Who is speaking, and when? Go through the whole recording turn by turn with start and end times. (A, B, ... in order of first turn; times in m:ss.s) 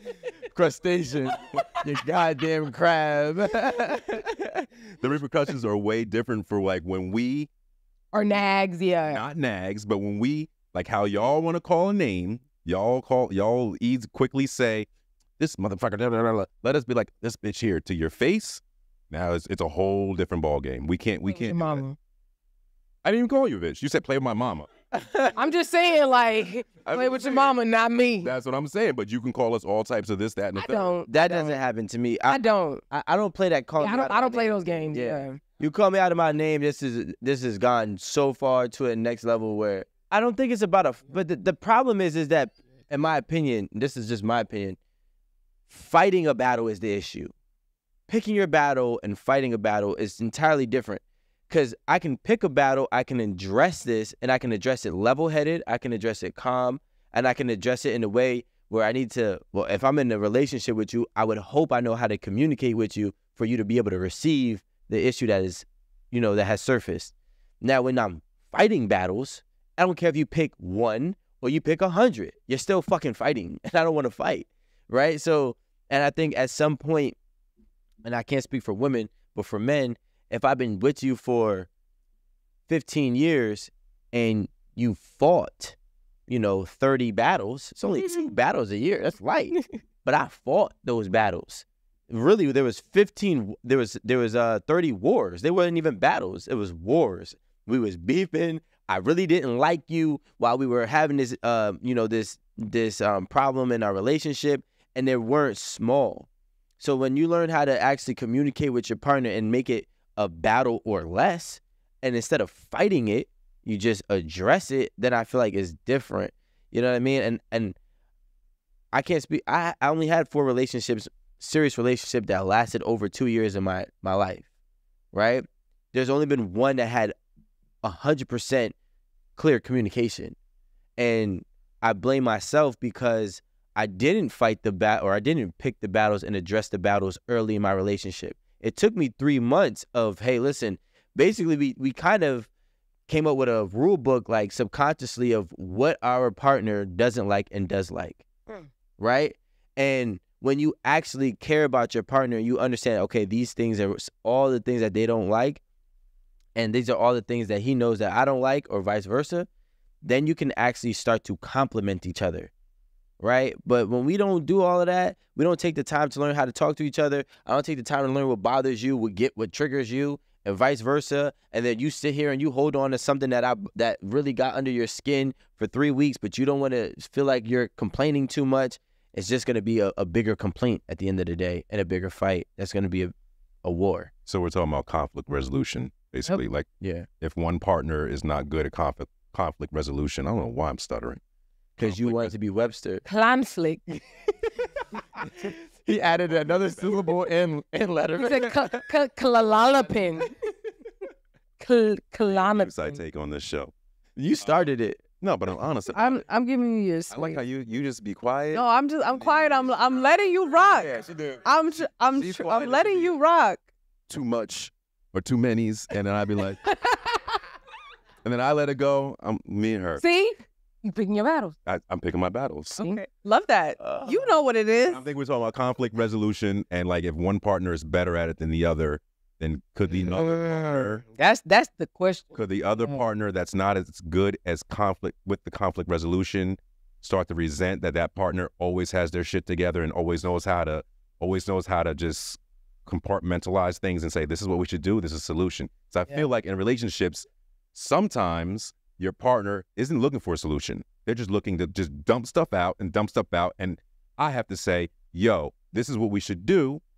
0:00.5-0:04.6 A
0:05.0-0:07.5 B
0:08.1-0:09.2 C
0:09.1-0:14.9 B
0:15.4-0:21.8 B
0:21.3-0:22.0 C
0:23.0-0:24.7 B
0:24.9-0:25.3 A
0:25.3-0:28.3 C
0:26.8-0:27.5 B
0:28.2-0:30.9 B
0:30.5-0:31.6 C
0:31.0-0:44.8 A
0:32.3-0:32.8 C
0:33.8-0:35.4 C
0:45.7-0:47.3 A
0:48.1-1:17.2 A
1:18.0-1:21.7 A
1:22.7-1:25.8 A
1:26.3-1:46.3 A
1:46.8-1:57.8 A
1:58.9-2:04.4 A
2:05.1-2:07.1 A
2:07.8-2:08.7 A
2:09.4-2:10.4 A
2:11.0-2:22.5 A
2:23.1-2:28.2 A
2:29.0-2:35.6 A
2:36.6-2:39.5 A
2:40.0-2:42.5 A
2:43.2-3:03.1 A
3:03.6-3:04.1 A
3:04.2-3:06.7 B
3:06.8-3:07.1 A
3:07.2-3:11.2 B
3:11.8-3:13.0 A
3:11.8-3:12.3 B
3:13.0-3:14.0 C
3:15.2-3:18.8 A
3:18.2-3:20.3 C
3:21.6-3:23.0 C
3:22.3-3:23.7 B
3:24.2-3:25.0 A
3:24.4-3:24.7 B
3:25.2-3:26.2 B
3:25.9-3:27.4 D
3:27.1-3:28.6 B
3:28.5-3:33.6 D
3:29.2-3:29.7 B
3:30.8-3:31.4 A
3:32.1-3:33.1 B
3:34.1-3:36.7 B
3:38.2-3:40.0 B
3:40.0-3:41.5 C
3:41.6-3:42.8 B
3:42.8-3:45.0 D
3:43.8-3:44.0 A
3:44.9-3:51.0 B
3:51.1-3:53.0 C
3:52.3-4:16.8 B